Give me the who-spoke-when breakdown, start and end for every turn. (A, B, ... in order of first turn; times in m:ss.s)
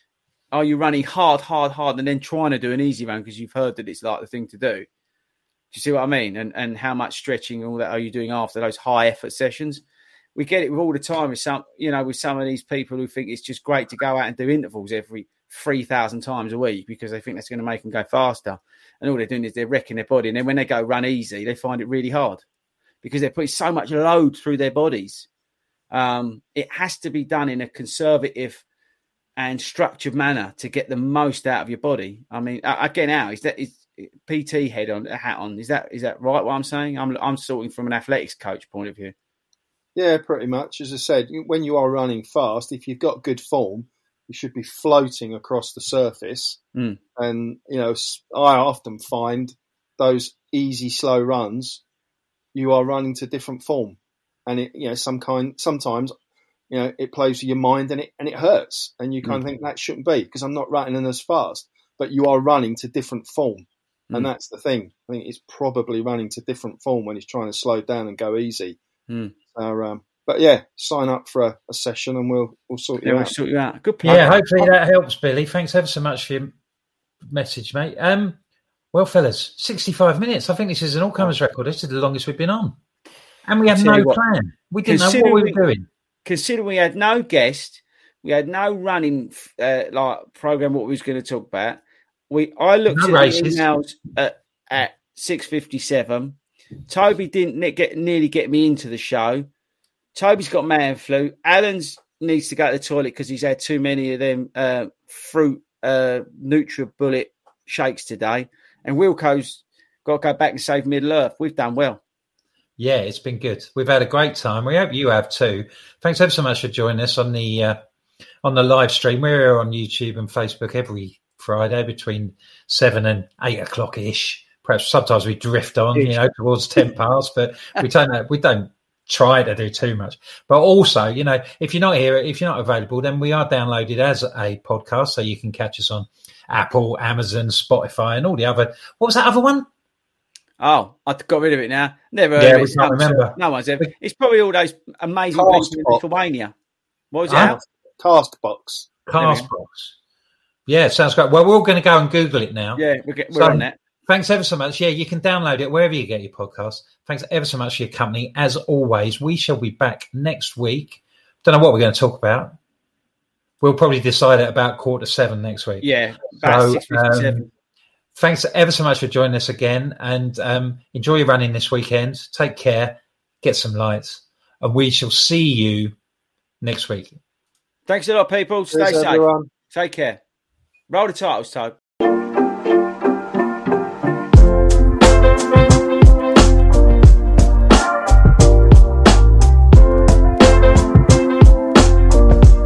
0:00.5-0:04.9 A
0:05.7-0:09.8 A
0:10.4-0:22.4 A
0:23.0-0:25.3 A
0:25.9-0:28.6 A
0:29.4-0:39.1 A
0:40.0-0:46.6 B
0:47.2-0:51.8 B
0:52.5-0:56.1 B
0:56.7-1:08.8 B
1:09.5-1:13.3 B
1:13.0-1:14.7 A
1:14.0-1:16.5 C
1:17.3-1:18.4 C
1:18.9-1:22.8 C
1:23.4-1:25.9 C
1:23.7-1:24.2 A
1:24.9-1:25.6 A
1:26.2-1:36.4 A
1:32.9-1:33.6 C
1:36.9-1:39.5 A
1:40.1-1:52.0 A
1:52.8-1:57.8 C
1:58.4-2:19.7 C
2:20.6-2:26.5 A
2:22.4-2:23.9 C
2:25.3-2:26.0 B
2:27.1-2:27.6 A
2:27.3-2:27.6 C
2:27.3-2:28.9 B
2:29.1-2:29.9 C
2:29.2-2:29.5 A
2:30.7-2:42.6 C
2:32.8-2:33.8 A
2:43.6-2:47.4 C
2:45.8-2:47.4 A
2:48.2-2:55.9 C
2:56.6-2:57.2 C
2:57.9-3:00.2 A
2:58.7-2:59.5 B
3:00.9-3:01.8 A